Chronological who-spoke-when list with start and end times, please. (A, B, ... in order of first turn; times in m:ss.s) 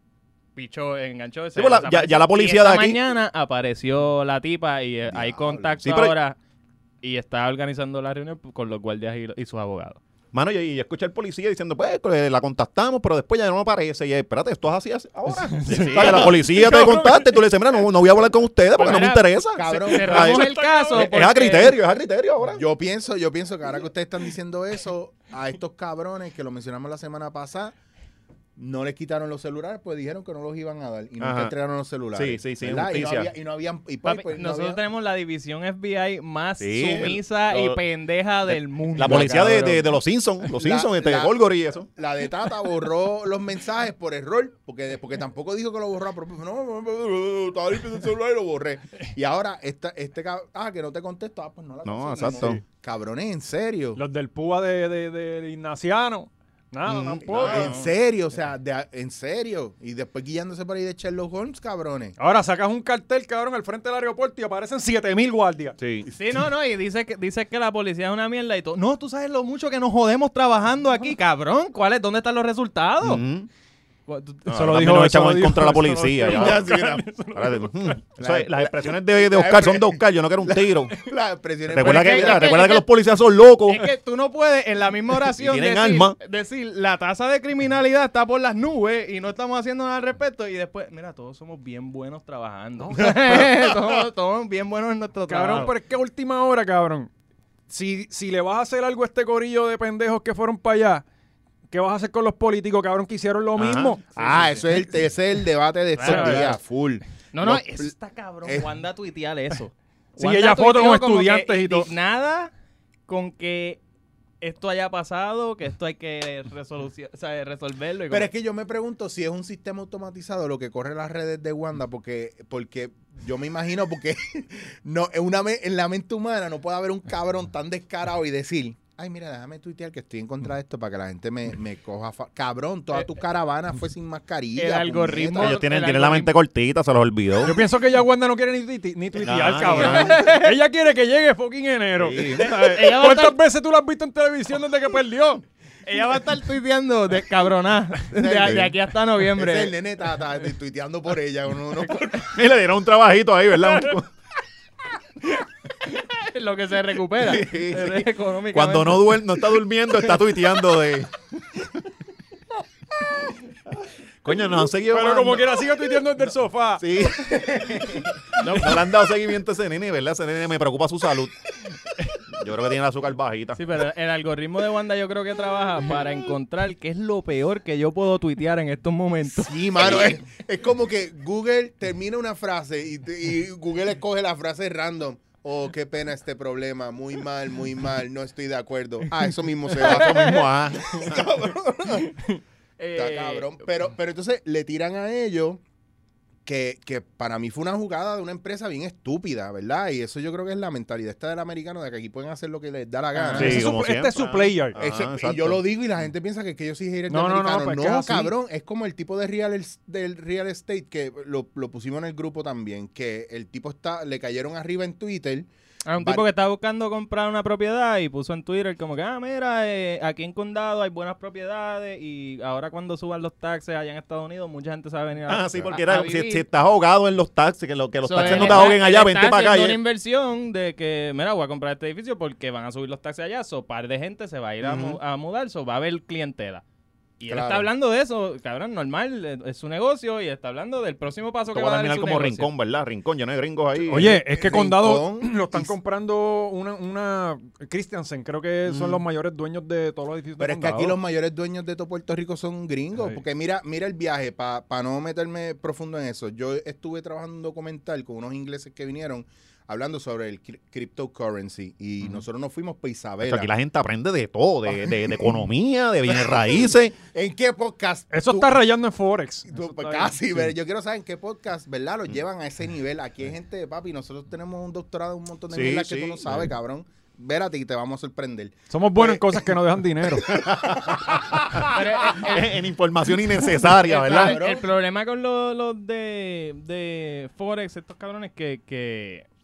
0:00.6-0:06.4 A
0:01.5-0:03.0 B
0:05.1-0:05.8 C
0:05.8-0:06.2 B
0:07.0-0:10.0 A
0:10.3-0:22.6 B
0:15.6-0:17.3 D
0:15.6-0:17.0 A
0:18.8-0:21.8 A
0:19.5-0:20.3 C
0:20.0-0:21.1 D
0:22.5-0:27.7 C
0:28.6-0:34.8 C
0:31.2-0:31.5 B
0:32.1-0:33.3 B
0:34.0-0:39.8 A
0:36.6-0:37.8 B
0:38.5-0:41.9 B
0:40.6-0:54.0 C
0:51.8-0:52.6 B
0:54.0-0:57.8 D
0:56.9-0:57.7 B
0:56.9-1:02.2 C
0:57.3-0:57.8 A
1:02.2-1:05.8 D
1:05.8-1:06.1 B
1:06.0-1:13.2 A
1:13.0-1:13.5 B
1:14.1-1:14.6 A
1:14.5-1:16.7 B
1:14.5-1:18.0 D
1:16.3-1:17.0 C
1:17.3-1:21.0 B
1:18.2-1:22.6 C
1:21.7-1:23.9 B
1:21.8-1:22.8 A
1:23.7-1:35.7 A
1:25.3-1:26.2 B
1:33.4-1:33.8 C
1:35.3-1:37.1 D
1:37.7-1:41.0 D
1:41.7-1:44.8 D
1:43.6-1:44.0 B
1:44.2-1:47.9 C
1:46.0-1:46.6 A
1:46.0-1:46.5 D
1:47.3-1:52.5 A
1:50.2-1:51.9 D
1:53.1-1:53.8 A
1:54.4-1:58.3 A
1:58.1-2:15.6 C
2:14.6-2:16.3 A
2:15.4-2:17.6 B
2:17.4-2:25.4 D
2:19.1-2:20.2 B
2:19.7-2:20.6 A
2:22.0-2:22.5 B
2:22.4-2:23.4 A
2:25.8-2:29.7 A
2:28.1-2:28.7 C
2:28.4-2:28.7 B
2:29.3-2:32.4 C
2:32.3-2:34.1 B
2:35.2-2:39.2 A
2:37.2-2:41.1 B
2:44.2-2:45.5 B
2:44.9-2:46.8 D
2:46.8-2:51.3 B
2:47.4-2:48.0 C
2:48.4-2:48.8 A
2:52.3-2:53.6 B
2:53.5-3:00.0 A
2:59.3-3:12.1 C
2:59.8-3:00.2 B
3:09.8-3:11.2 B
3:09.8-3:10.4 A
3:12.0-3:13.6 A
3:12.9-3:15.6 C
3:16.4-3:23.7 C
3:23.1-3:24.8 D
3:23.4-3:25.6 B
3:24.7-3:35.5 C
3:27.1-3:28.3 D
3:35.8-3:46.4 A
3:36.0-3:36.2 C
3:45.3-3:49.8 B
3:48.0-3:56.6 A
3:54.6-3:55.0 B
3:57.2-4:02.5 A
3:57.3-3:57.7 C
4:01.5-4:04.2 B
4:03.7-4:05.7 C
4:03.9-4:11.0 D
4:08.6-4:09.0 B
4:10.4-4:23.5 C
4:23.2-4:27.0 B
4:24.8-4:25.2 C
4:27.0-4:28.6 C
4:28.1-4:30.1 D
4:29.5-4:39.5 C
4:35.5-4:36.5 B
4:38.7-4:40.3 D
4:40.2-4:41.8 C
4:40.3-4:44.4 B
4:41.6-4:42.6 A
4:43.6-4:49.2 A
4:44.0-4:44.6 C